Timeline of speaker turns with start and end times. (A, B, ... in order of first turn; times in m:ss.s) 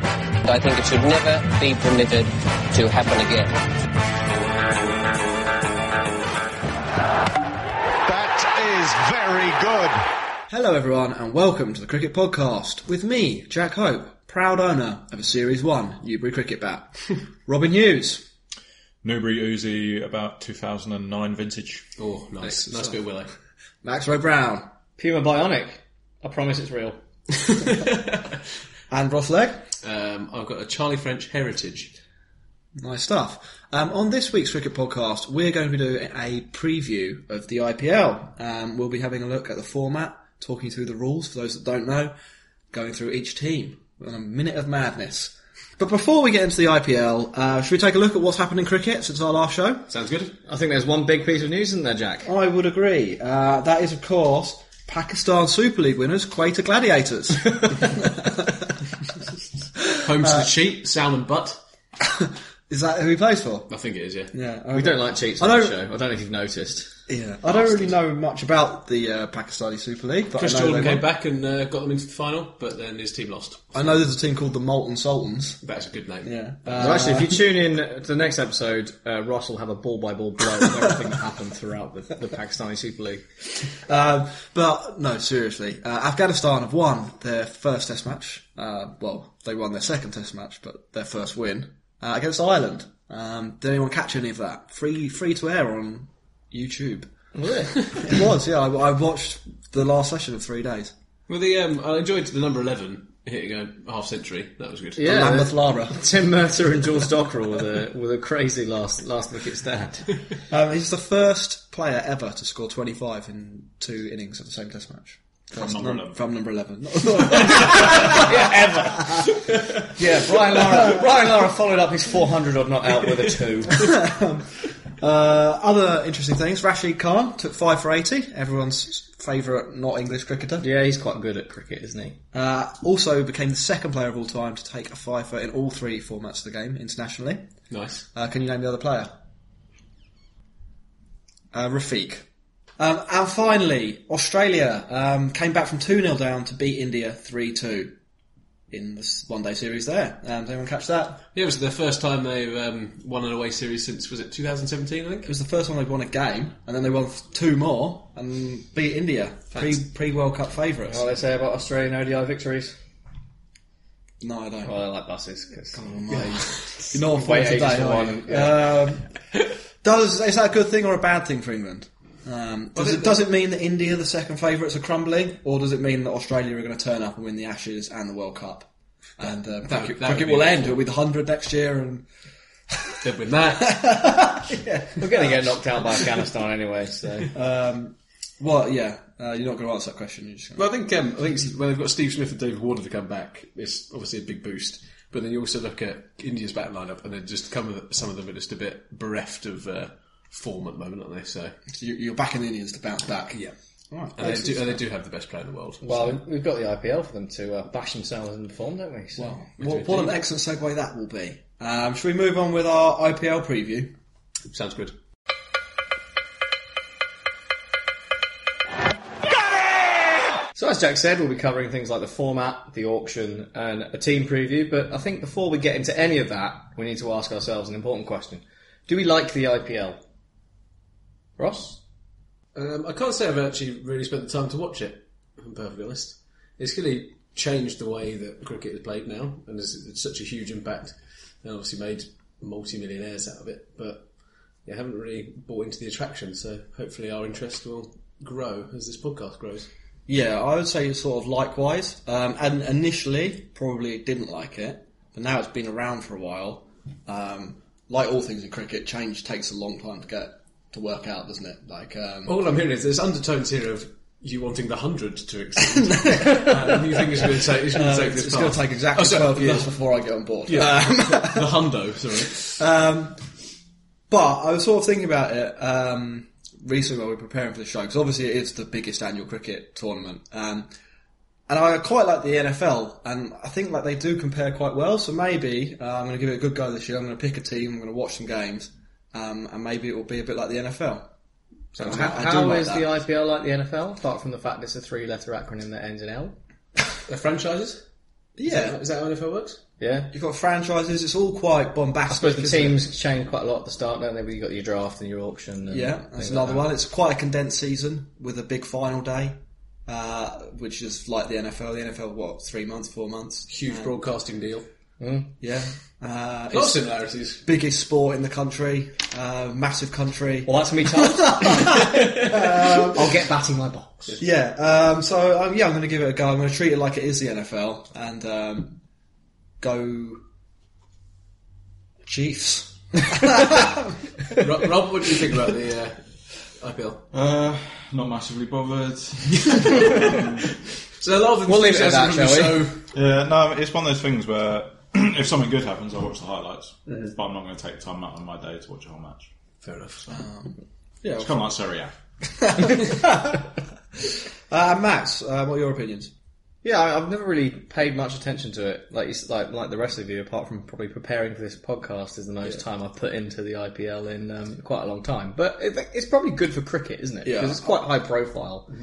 0:00.4-0:03.5 A
0:08.1-0:10.0 B
0:10.5-0:18.3 C
0:19.0-0:21.9 D
0:22.0-0:23.3 E
0:22.4-0:23.0 C
0:23.8-0:24.7 C
0:25.0-0:27.0 F
0:28.9-0:29.6 C
0:29.8-0:32.0 E
0:32.8-0:42.1 C
0:42.7-0:49.9 C
0:49.9-0:50.4 E
0:50.5-0:52.3 F
0:52.2-0:58.5 C
0:59.9-1:01.6 E
1:00.2-1:00.4 C
1:02.0-1:03.7 C
1:03.7-1:04.3 E
1:04.3-1:05.8 C
1:04.7-1:06.9 F
1:07.1-1:11.1 C
1:07.5-1:08.0 E
1:10.4-1:13.9 E
1:13.7-1:15.6 C
1:15.6-1:17.2 E
1:16.2-1:17.4 C
1:16.8-1:23.2 F
1:23.7-1:37.1 C
1:37.4-1:37.8 F
1:37.8-1:40.9 C
1:41.3-1:45.4 E
1:45.0-1:50.1 F
1:45.0-1:46.0 C
1:50.5-1:58.3 C
1:55.6-1:56.2 D
1:57.6-2:03.9 F
2:03.7-2:04.5 C
2:05.0-2:10.7 C
2:10.6-2:12.2 F
2:12.3-2:17.5 C
2:17.7-2:18.1 E
2:18.1-2:19.1 C
2:21.5-2:22.3 C
2:22.8-2:28.0 C
2:28.7-2:31.2 C
2:31.3-2:35.3 E
2:35.2-2:41.0 C
2:39.5-2:39.8 E
2:40.9-2:42.8 F
2:44.2-2:44.8 C
2:44.6-2:45.8 F
2:45.7-2:49.2 C
2:46.1-2:46.8 E
2:47.0-2:48.6 F
2:49.8-3:02.1 C
2:52.8-2:53.3 E
2:59.7-3:00.8 E
3:03.0-3:04.1 E
3:03.6-3:05.6 C
3:05.0-3:07.3 F
3:07.3-3:10.7 C
3:10.6-3:21.6 E
3:21.7-3:24.8 C
3:24.2-3:26.1 E
3:25.8-3:29.4 F
3:29.2-3:34.0 C
3:29.6-3:30.2 E
3:34.5-3:35.0 E
3:40.6-3:50.0 F
3:51.4-3:51.8 F
3:52.5-4:04.1 E
4:04.6-4:09.7 E
4:10.1-4:22.4 C
4:22.3-4:29.7 E
4:26.0-4:31.6 C
4:30.5-4:32.6 E
4:32.2-4:33.2 C
4:34.1-4:40.7 C
4:41.5-4:51.1 C
4:51.8-4:52.9 C
4:51.8-4:56.4 F
4:57.1-4:57.8 E
4:58.4-4:58.8 C
4:58.4-4:59.6 E
4:59.8-5:00.1 F
5:00.1-5:02.8 C
5:02.1-5:06.7 F
5:05.7-5:13.9 C
5:13.5-5:14.7 E
5:15.0-5:15.3 F
5:15.4-5:16.9 C
5:16.5-5:17.4 E
5:17.4-5:23.1 C
5:20.5-5:24.2 F
5:24.2-5:28.8 C
5:29.6-5:30.2 C
5:32.0-5:33.9 C
5:34.3-5:36.0 E
5:36.6-5:37.0 E
5:37.1-5:40.5 D
5:41.0-5:42.8 E
5:41.5-5:42.7 F
5:42.9-5:49.3 D
5:49.6-5:50.1 E
5:50.1-5:51.4 C
5:51.2-5:51.9 D
5:52.4-5:53.4 C
5:54.0-5:56.1 C
5:56.6-6:08.7 F
6:07.2-6:07.7 C